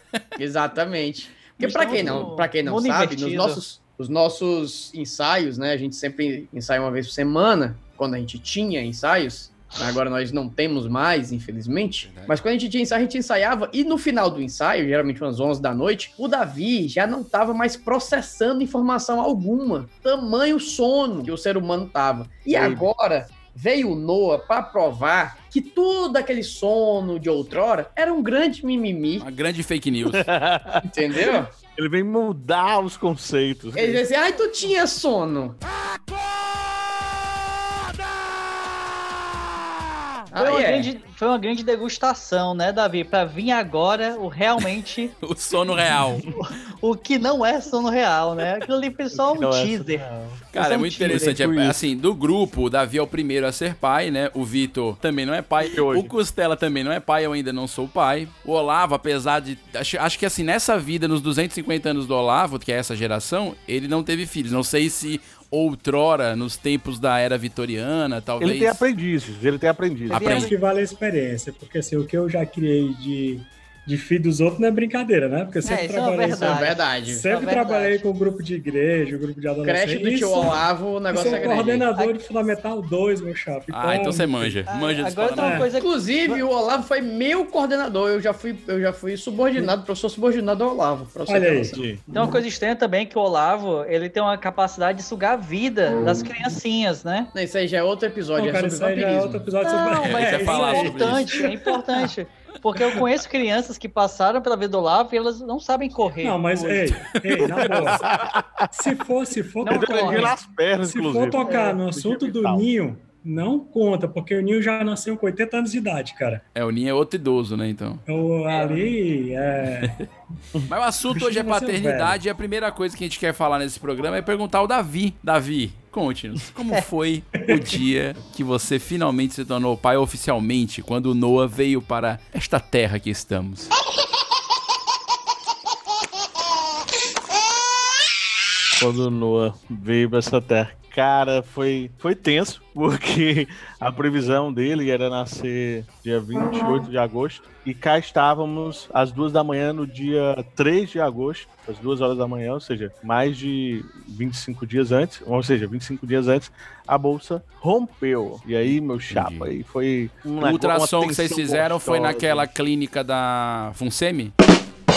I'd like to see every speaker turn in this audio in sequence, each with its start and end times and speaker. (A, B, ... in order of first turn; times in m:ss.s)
0:00.4-0:29.3 A
0:01.6-0:03.6 B
0:12.0-0:12.4 C
0:22.5-0:22.9 D
0:29.2-0:30.2 C
0:30.1-0:34.0 D
0:30.8-0:31.5 A
0:33.8-0:35.6 A
0:40.3-0:40.9 A
0:40.4-0:45.1 B
0:45.2-0:46.2 C
0:46.3-0:51.5 B
0:49.1-0:51.8 D
0:50.5-1:08.8 C
0:55.6-0:56.1 D
1:08.4-1:10.5 D
1:10.1-1:10.5 B
1:10.1-1:10.5 C
1:10.3-1:24.6 E
1:15.6-1:18.0 B
1:16.4-1:17.2 A
1:19.6-1:21.9 A
1:21.3-1:22.2 B
1:23.7-1:25.7 C
1:24.7-1:26.4 B
1:25.4-1:25.7 E
1:25.8-1:31.8 A
1:31.3-1:31.7 E
1:31.7-1:32.0 D
1:32.1-1:37.3 B
1:37.3-1:39.5 A
1:38.4-1:41.9 E
1:39.6-1:47.0 B
1:39.8-1:41.5 C
1:46.2-1:48.1 E
1:47.5-1:48.6 D
1:48.7-1:56.4 E
1:49.6-1:50.3 B
1:49.7-1:52.7 D
1:51.4-1:51.8 B
1:56.6-1:58.0 C
1:58.1-2:00.0 E
1:58.5-1:58.8 B
2:00.7-2:13.7 C
2:01.1-2:02.2 E
2:07.4-2:07.8 E
2:18.8-2:42.5 D
2:39.1-2:39.5 C
2:40.4-2:44.3 C